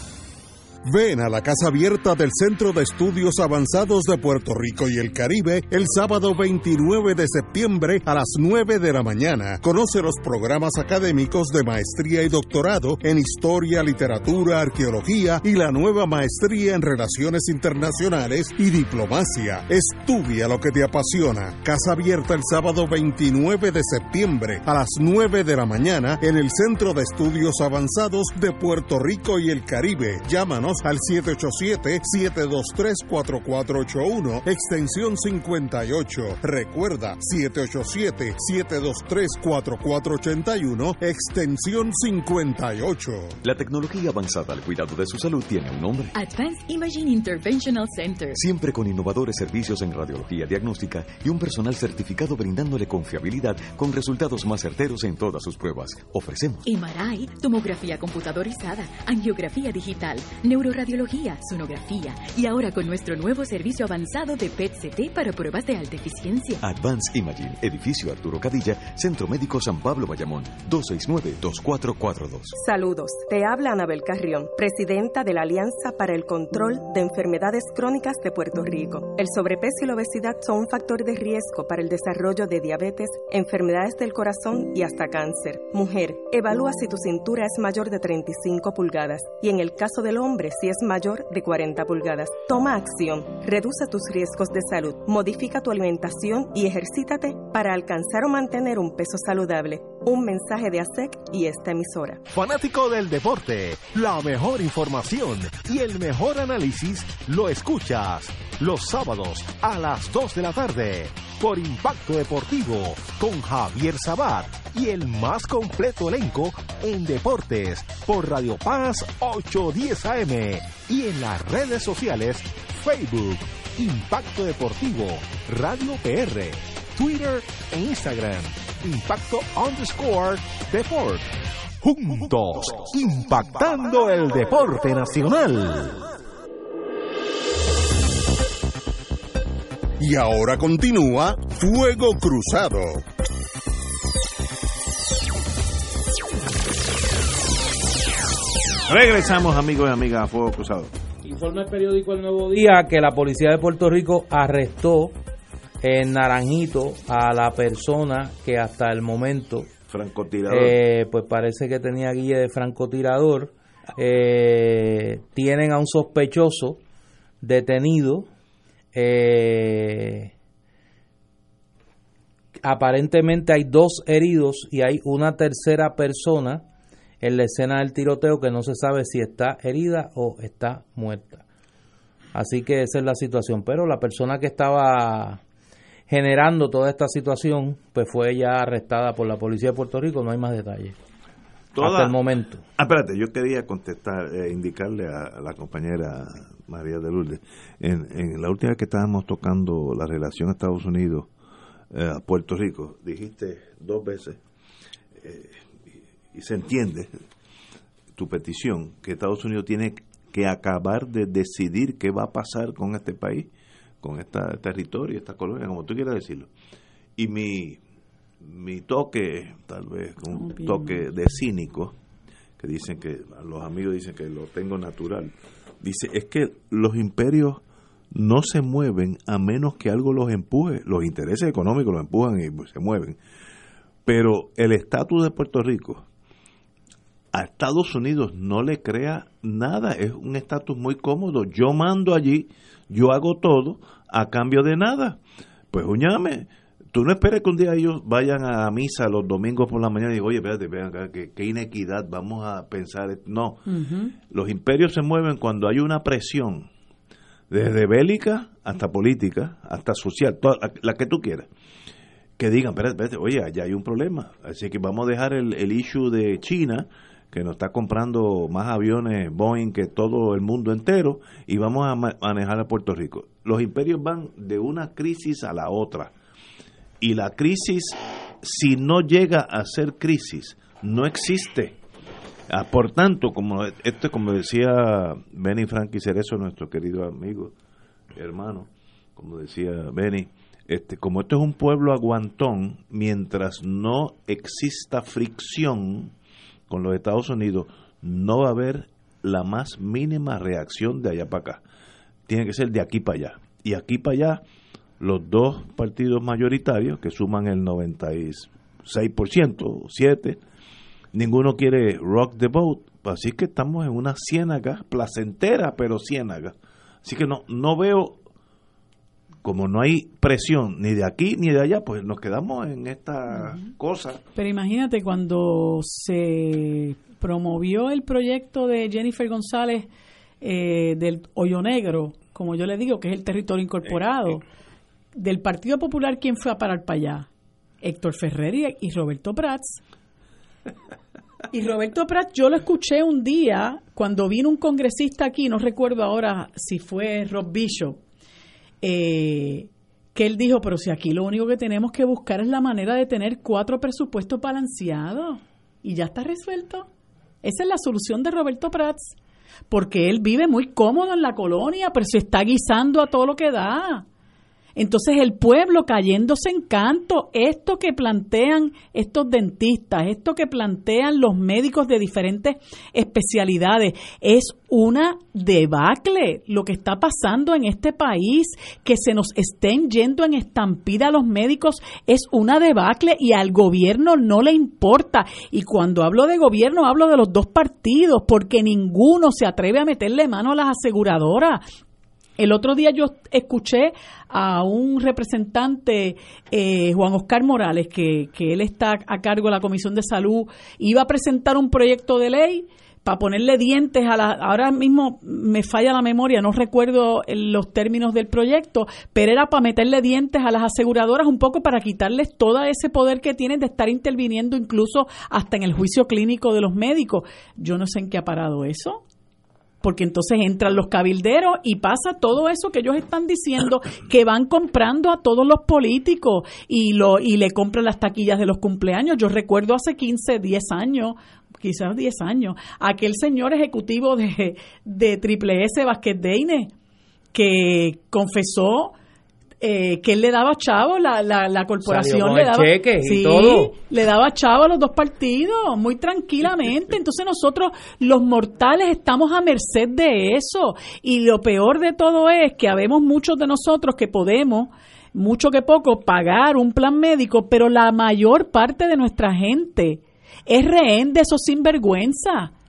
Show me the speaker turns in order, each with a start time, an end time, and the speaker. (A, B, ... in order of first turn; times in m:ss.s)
0:00.8-0:43.4 A
0:43.4-0:46.2 B
0:46.2-0:48.4 C
0:48.4-0:56.6 B
0:56.6-1:06.6 C
1:06.6-1:12.6 B
1:12.6-1:42.2 D
1:42.3-2:16.1 E
2:20.0-2:23.0 A
2:28.9-2:30.9 F
2:31.2-2:35.1 G
2:35.8-2:39.7 G
2:39.9-2:40.8 F
2:40.5-2:46.8 G
2:47.4-2:48.3 G
2:48.9-2:50.3 G
2:52.6-2:56.6 G
2:57.2-3:01.4 G
3:02.3-3:05.4 G
3:06.1-3:11.0 G
3:11.7-3:12.2 F
3:11.8-3:12.6 G
3:12.8-3:21.3 F
3:21.9-3:24.4 F
3:25.2-3:25.7 F
3:26.3-3:27.1 F
3:28.2-3:33.5 F
3:34.0-3:36.5 F
3:37.2-3:37.8 F
3:38.4-3:42.0 F
3:40.3-3:41.0 H
3:42.6-3:47.6 F
3:48.1-3:53.2 F
3:54.0-3:56.0 F
3:57.3-4:05.2 F
4:05.7-4:13.7 F
4:13.7-4:14.1 H
4:14.3-4:16.7 F
4:17.5-4:21.5 F
4:22.4-4:36.1 F
4:37.0-4:41.8 F
4:42.5-4:47.5 F
4:48.2-4:56.1 F
4:56.7-5:01.6 F
5:02.3-5:04.4 F
5:05.0-5:10.4 F
5:11.1-5:18.2 F
5:19.4-5:24.2 F
5:23.3-5:23.6 H
5:24.4-5:29.9 H
5:30.4-5:34.4 H
5:35.2-5:37.3 H
5:37.8-5:39.8 H
5:41.5-5:48.0 H
5:48.8-5:56.9 H
5:57.4-5:59.2 H
5:59.7-6:04.0 H
6:04.8-6:31.6 H
6:32.4-6:59.0 H
6:59.8-7:16.7 H
7:17.3-7:19.0 H
7:19.6-7:42.5 H
7:21.8-7:23.7 G